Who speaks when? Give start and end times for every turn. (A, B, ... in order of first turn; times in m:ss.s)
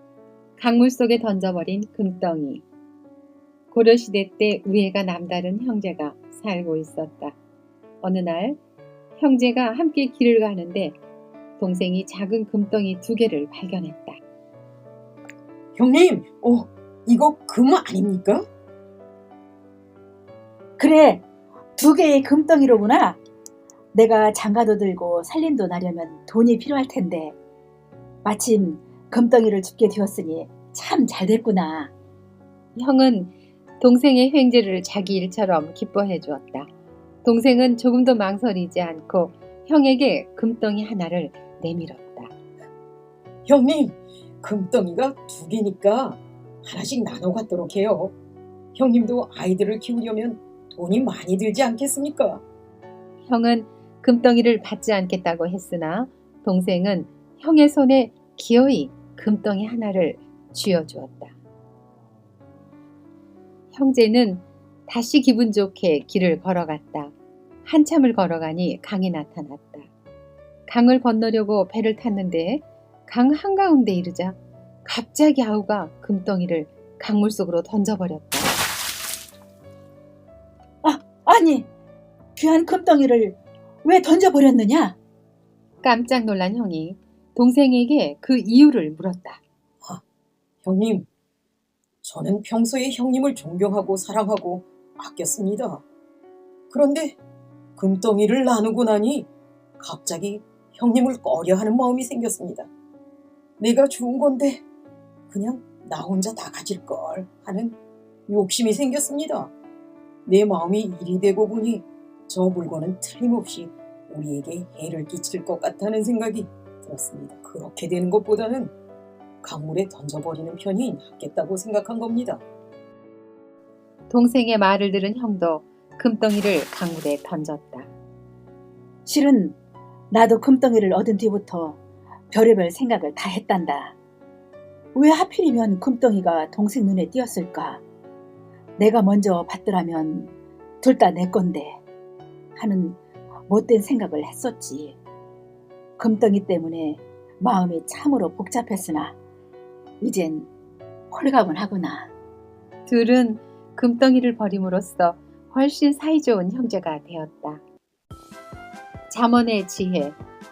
0:00.6-0:02.6 A
0:03.7-0:07.4 A
0:08.0-0:08.6 A
0:09.2-0:11.0 A
0:11.6-0:14.2 A
0:15.8-0:18.5 B
0:20.8-0:21.2 C
0:21.8-0:23.2 C
0:23.9-0:27.4 C
0:28.2-0:31.9 C
0:32.8-0:36.7 A
0:37.2-0:42.3 A
0:43.5-0:48.2 B
0:48.8-0:52.4 B
0:53.2-1:01.3 A
1:03.7-1:09.9 A
1:10.7-1:18.5 A
1:20.8-1:21.7 C
1:22.4-1:25.0 C
1:25.8-1:29.4 A
1:30.6-1:31.1 B
1:32.0-1:35.8 B
1:36.7-1:37.2 B
1:37.8-1:42.7 B
1:43.6-1:44.6 B
1:45.3-1:47.8 B
1:48.3-1:49.5 B
1:50.3-1:58.7 B
1:59.4-2:02.4 B
2:04.1-2:07.9 A
2:09.1-2:09.6 C
2:10.1-2:11.8 C
2:12.3-2:14.0 C
2:14.9-2:17.8 C
2:18.8-2:21.8 C
2:22.6-2:25.0 C
2:26.0-2:29.2 C
2:30.0-2:30.5 C
2:31.1-2:32.1 C
2:32.9-2:37.6 A
2:39.1-2:40.2 A